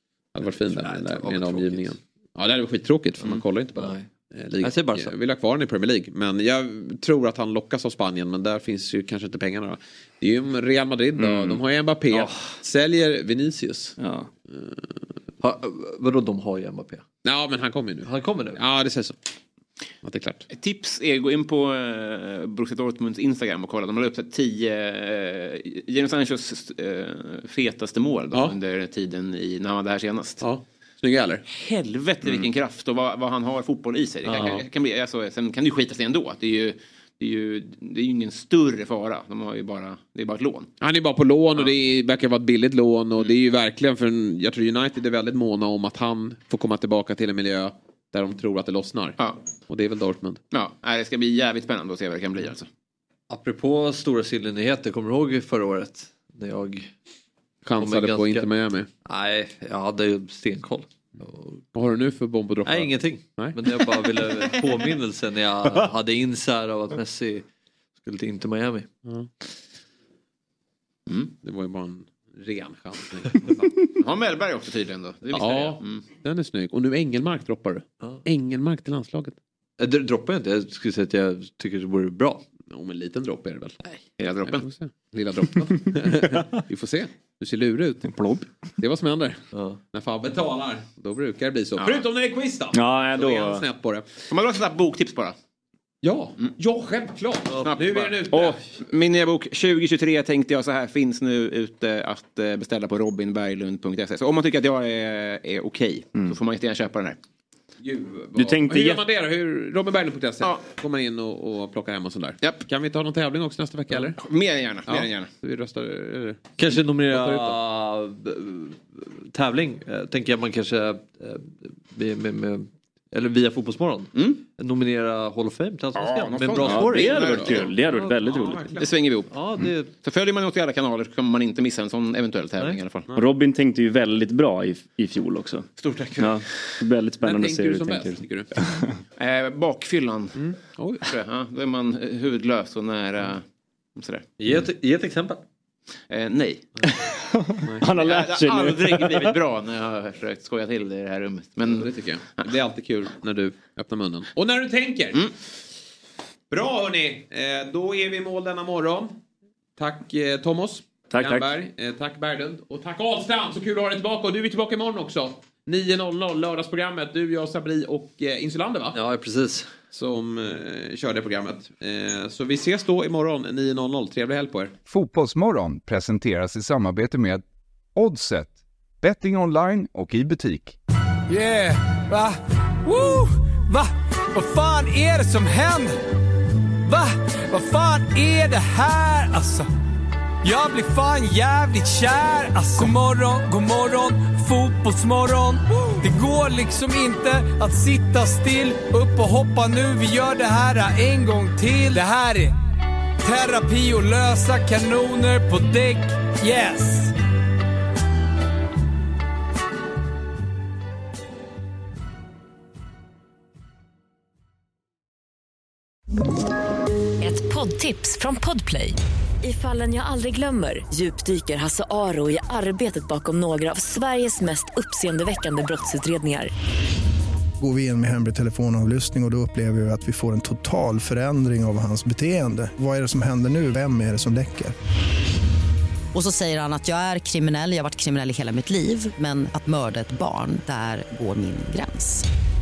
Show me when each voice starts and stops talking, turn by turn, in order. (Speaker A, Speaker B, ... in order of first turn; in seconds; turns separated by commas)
Speaker A: 0.3-14.0, Speaker B: 0.6-1.9, Speaker B: 3.8-4.1, Speaker B: 4.6-5.1, Speaker C: 11.2-11.6, Speaker C: 14.0-14.3, Speaker A: 14.5-14.8, Speaker B: 15.4-17.0, Speaker A: 17.2-19.2, Speaker B: 18.1-18.6, Speaker A: 20.0-20.5, Speaker D: 20.5-30.4, Speaker A: 30.4-31.4, Speaker D: 31.5-40.7, Speaker B: 34.2-34.6, Speaker A: 40.8-50.4, Speaker D: 50.5-52.7, Speaker B: 53.3-56.9, Speaker A: 57.6-58.9, Speaker B: 57.8-58.5, Speaker B: 59.0-61.6, Speaker A: 61.7-63.6, Speaker B: 62.7-67.5, Speaker B: 68.0-68.9, Speaker A: 71.4-73.7, Speaker D: 74.0-76.0, Speaker A: 75.3-79.4, Speaker B: 79.8-82.4, Speaker A: 82.7-83.8, Speaker D: 84.2-84.7, Speaker A: 84.5-88.1, Speaker C: 88.0-88.5, Speaker A: 88.8-89.4, Speaker B: 89.5-89.8, Speaker A: 89.9-94.1, Speaker D: 91.8-92.0, Speaker C: 92.7-93.7, Speaker D: 94.3-95.3, Speaker A: 96.0-98.6, Speaker B: 97.5-98.2, Speaker D: 97.6-107.2, Speaker A: 107.8-114.2, Speaker C: 108.4-109.0, Speaker D: 114.2-115.3, Speaker A: 114.9-116.6, Speaker B: 116.6-127.7, Speaker A: 117.1-117.6, Speaker D: 124.2-124.4, Speaker D: 126.0-127.7, Speaker A: 126.6-128.9, Speaker C: 126.7-128.6, Speaker D: 128.8-129.4, Speaker B: 129.3-129.9, Speaker D: 129.9-133.1, Speaker C: 133.1-139.0, Speaker D: 135.8-136.5, Speaker A: 137.2-138.6, Speaker D: 139.2-140.4, Speaker A: 140.4-141.1, Speaker D: 141.0-143.4, Speaker D: 144.0-144.2, Speaker B: 144.4-145.4, Speaker D: 146.1-146.7, Speaker C: 146.9-149.3, Speaker D: 147.9-152.5, Speaker A: 151.7-155.2, Speaker A: 156.5-159.2, Speaker A: 159.8-169.0, Speaker C: 161.1-161.5, Speaker B: 168.9-169.7, Speaker A: 169.9-174.7, Speaker E: 174.9-177.4, Speaker E: 177.9-180.8, Speaker F: 181.3-186.0, Speaker F: 186.9-189.7, Speaker F: 190.4-202.5, Speaker F: 203.2-207.1, Speaker G: 217.2-226.5, Speaker H: 227.6-234.7, Speaker I: 236.1-242.2